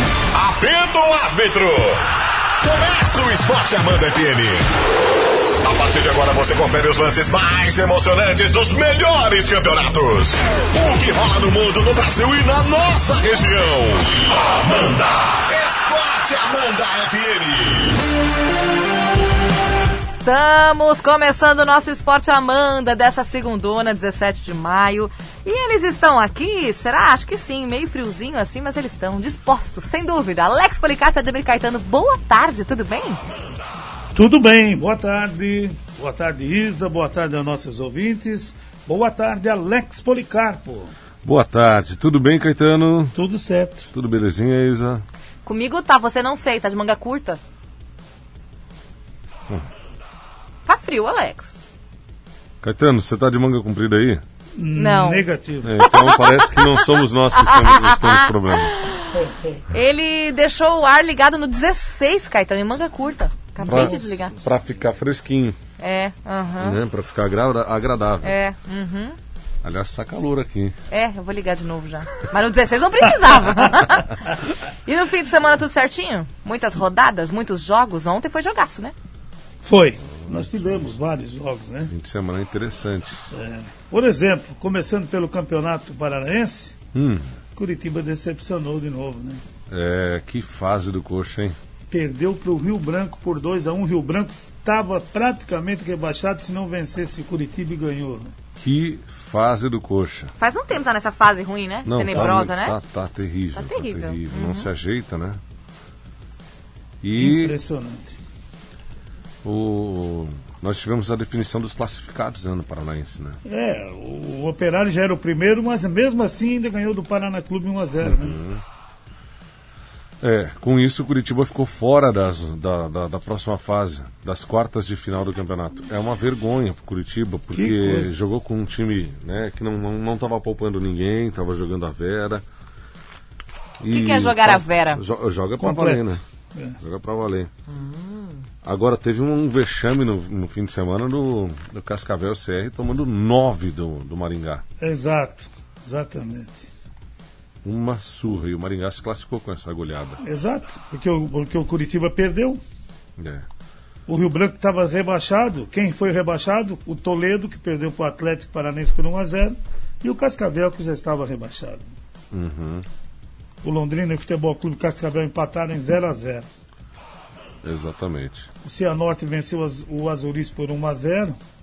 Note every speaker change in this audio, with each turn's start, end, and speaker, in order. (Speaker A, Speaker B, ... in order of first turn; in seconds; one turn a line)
Speaker A: 0.3-4.7
Speaker A: 5.6-18.0
Speaker B: 20.2-33.2
Speaker C: 34.1-40.9
Speaker D: 41.2-43.1
Speaker C: 43.1-43.9
Speaker D: 43.9-45.0
Speaker B: 45.5-47.4
Speaker B: 50.7-51.6
Speaker D: 52.6-54.2
Speaker C: 54.6-55.8
Speaker B: 54.8-55.3
Speaker D: 55.6-58.8
Speaker B: 55.8-64.4
Speaker C: 59.1-59.6
Speaker C: 63.6-64.5
Speaker D: 63.7-65.6
Speaker B: 65.8-66.8
Speaker D: 66.6-68.4
Speaker B: 68.2-69.2
Speaker D: 69.6-70.8
Speaker B: 70.9-78.9
Speaker C: 79.6-81.9
Speaker D: 81.9-83.2
Speaker C: 83.3-86.8
Speaker D: 86.9-87.3
Speaker C: 87.6-89.4
Speaker D: 89.7-91.6
Speaker C: 91.9-98.3
Speaker D: 98.6-100.3
Speaker B: 100.4-102.8
Speaker D: 101.9-105.4
Speaker B: 103.6-104.7
Speaker D: 107.0-107.6
Speaker C: 107.2-108.2
Speaker D: 109.4-113.4
Speaker C: 113.5-118.4
Speaker D: 118.0-118.6
Speaker D: 120.2-132.4
Speaker C: 127.5-128.1
Speaker D: 133.8-136.2
Speaker B: 133.9-135.0
Speaker C: 135.6-136.8
Speaker D: 136.8-137.5
Speaker B: 137.7-138.4
Speaker D: 138.6-144.6
Speaker C: 144.8-146.7
Speaker D: 147.6-150.2
Speaker C: 150.2-152.6
Speaker D: 153.2-153.4
Speaker C: 154.1-161.9
Speaker D: 162.3-162.9
Speaker C: 163.6-166.4
Speaker D: 167.6-168.5
Speaker C: 168.6-171.4